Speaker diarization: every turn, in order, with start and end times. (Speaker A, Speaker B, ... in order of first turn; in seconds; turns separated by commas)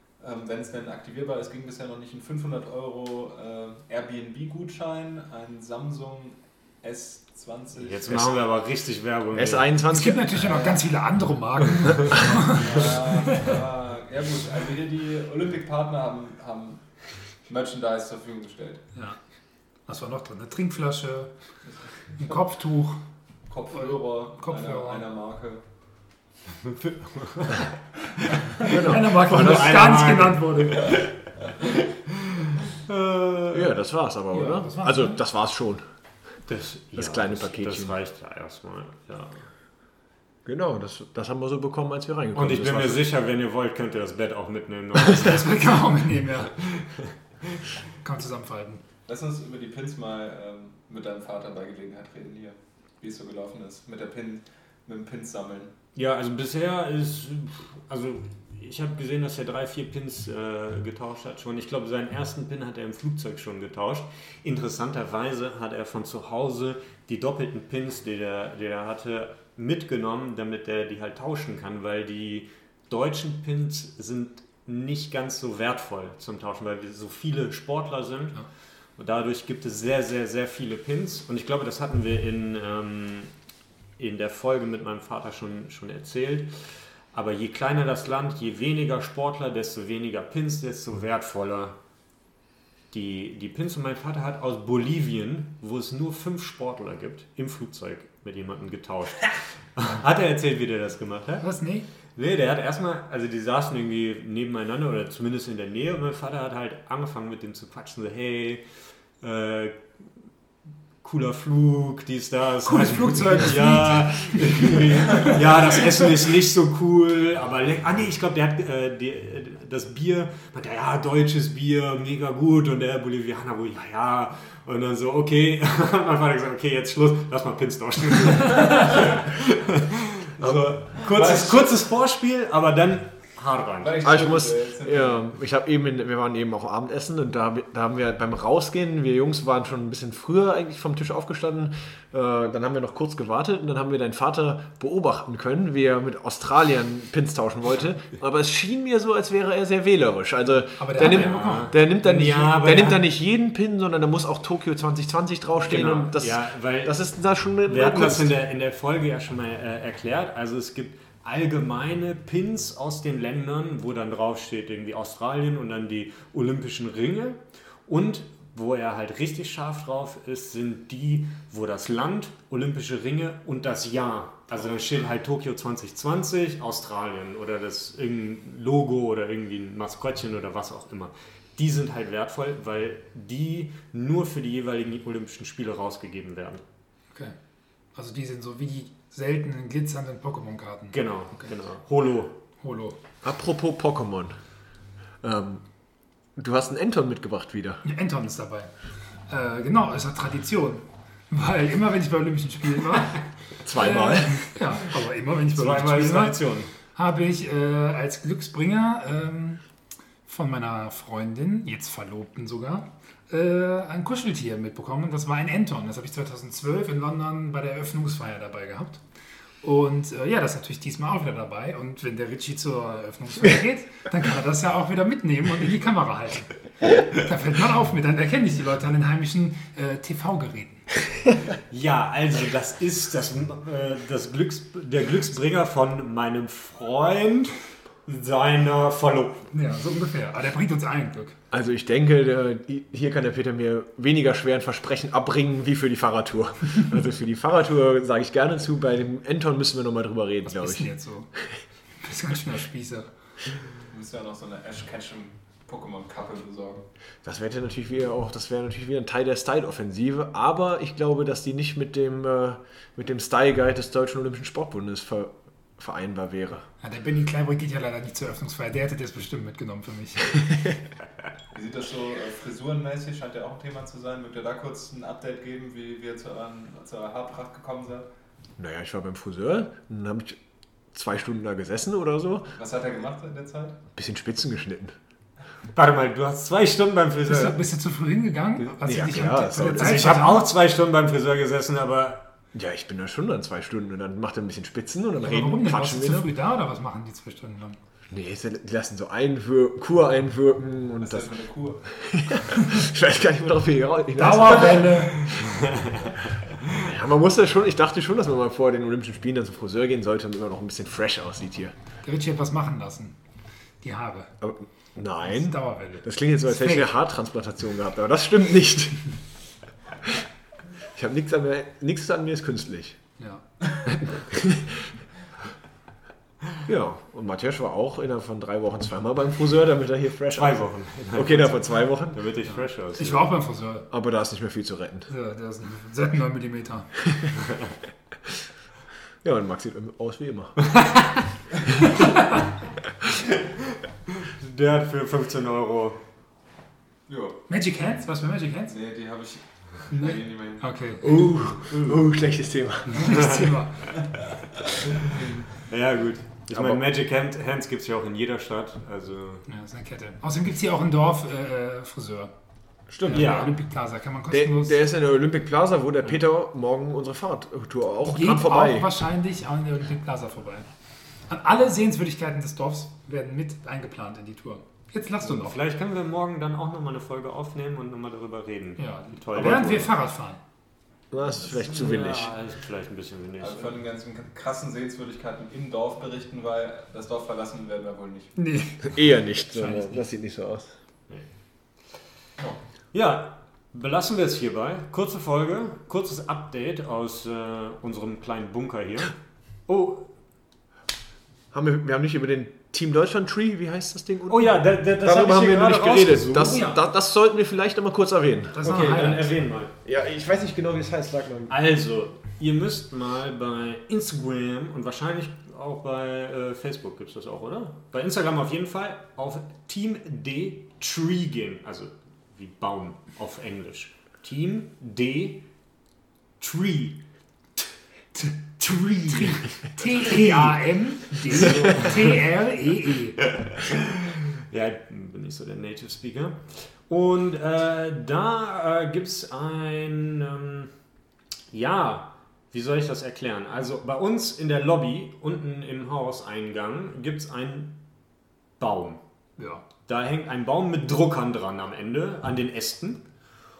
Speaker A: 0.2-8.3, Speaker B: 7.7-9.7, Speaker C: 8.1-8.3, Speaker C: 9.3-10.3, Speaker D: 9.9-13.4, Speaker A: 10.4-10.8, Speaker A: 12.6-18.8, Speaker D: 18.9-19.2, Speaker D: 19.9-21.3, Speaker A: 21.7-22.3, Speaker D: 22.1-23.0, Speaker A: 23.5-25.6, Speaker D: 23.7-25.1, Speaker B: 26.8-27.6, Speaker D: 28.6-31.1, Speaker B: 28.7-31.1, Speaker C: 28.7-29.7, Speaker B: 32.8-33.8, Speaker C: 33.5-35.8, Speaker D: 34.3-35.2, Speaker B: 36.4-39.5, Speaker C: 36.9-38.0, Speaker C: 40.4-43.0, Speaker B: 42.3-45.8, Speaker D: 45.1-46.6, Speaker D: 48.0-48.8, Speaker A: 49.1-55.7, Speaker B: 55.9-78.4, Speaker B: 79.0-83.3, Speaker B: 84.0-91.8, Speaker B: 92.9-101.5, Speaker D: 101.4-101.9, Speaker B: 102.2-108.7, Speaker B: 109.2-110.3, Speaker B: 111.0-129.5, Speaker D: 112.6-115.4, Speaker B: 130.4-134.0, Speaker A: 130.4-131.7, Speaker A: 133.8-135.3, Speaker C: 134.0-158.4, Speaker D: 150.7-151.7, Speaker B: 151.0-153.0, Speaker B: 155.6-186.6, Speaker D: 187.9-191.5, Speaker B: 190.9-192.4, Speaker D: 192.6-193.0, Speaker C: 193.2-194.4, Speaker C: 195.2-195.7, Speaker C: 196.3-197.8, Speaker D: 197.8-198.7, Speaker D: 199.3-209.6, Speaker C: 203.6-204.4, Speaker B: 205.5-206.7, Speaker D: 210.2-219.0, Speaker D: 219.6-230.9, Speaker B: 231.7-239.5, Speaker D: 239.5-241.4, Speaker C: 241.5-251.5, Speaker D: 250.4-251.3, Speaker D: 251.9-253.1, Speaker A: 253.9-256.9, Speaker C: 257.2-266.6, Speaker D: 266.8-270.6, Speaker A: 271.5-278.1, Speaker C: 278.6-280.4, Speaker C: 280.9-282.5, Speaker A: 282.5-283.8, Speaker C: 283.9-284.9, Speaker B: 285.7-287.6, Speaker D: 287.3-290.5, Speaker B: 288.6-292.3, Speaker C: 288.8-290.2, Speaker C: 292.5-296.3, Speaker D: 295.2-297.8, Speaker C: 298.1-305.3, Speaker A: 301.0-301.9, Speaker D: 304.1-305.2, Speaker C: 306.6-311.7, Speaker D: 312.0-313.2, Speaker D: 313.8-314.3, Speaker C: 314.4-319.2, Speaker D: 315.2-316.9, Speaker C: 320.9-323.0, Speaker D: 323.2-323.5, Speaker C: 324.0-325.0, Speaker C: 326.6-332.2, Speaker B: 330.3-333.3, Speaker D: 332.4-333.9, Speaker C: 333.9-335.1, Speaker D: 335.1-337.0, Speaker C: 339.2-340.6, Speaker B: 344.2-346.0, Speaker A: 347.1-347.4, Speaker D: 347.5-348.7, Speaker A: 348.7-350.7, Speaker D: 349.9-351.3, Speaker C: 351.0-353.3, Speaker B: 351.7-352.0, Speaker D: 352.9-353.9, Speaker B: 353.0-353.6, Speaker B: 355.6-359.4, Speaker C: 356.5-356.8, Speaker D: 359.5-362.3, Speaker C: 362.9-363.4, Speaker D: 363.0-364.8, Speaker B: 363.1-363.6, Speaker C: 364.3-368.9, Speaker D: 368.0-370.7, Speaker D: 371.2-375.6, Speaker B: 375.2-379.9, Speaker D: 378.8-380.4, Speaker C: 381.1-382.3, Speaker B: 381.5-383.8, Speaker A: 383.4-388.3, Speaker D: 388.4-389.0, Speaker C: 388.8-390.7, Speaker B: 389.6-390.0, Speaker B: 392.9-400.1, Speaker C: 401.5-408.7, Speaker B: 404.3-406.7, Speaker D: 408.5-409.3, Speaker B: 408.6-409.7, Speaker C: 409.8-411.5, Speaker B: 411.5-425.4, Speaker B: 426.4-427.0, Speaker D: 428.1-433.2, Speaker B: 429.9-430.6, Speaker B: 431.2-432.2, Speaker B: 433.4-440.7, Speaker B: 441.5-447.8, Speaker B: 448.6-449.0, Speaker D: 449.4-449.6, Speaker B: 449.9-453.1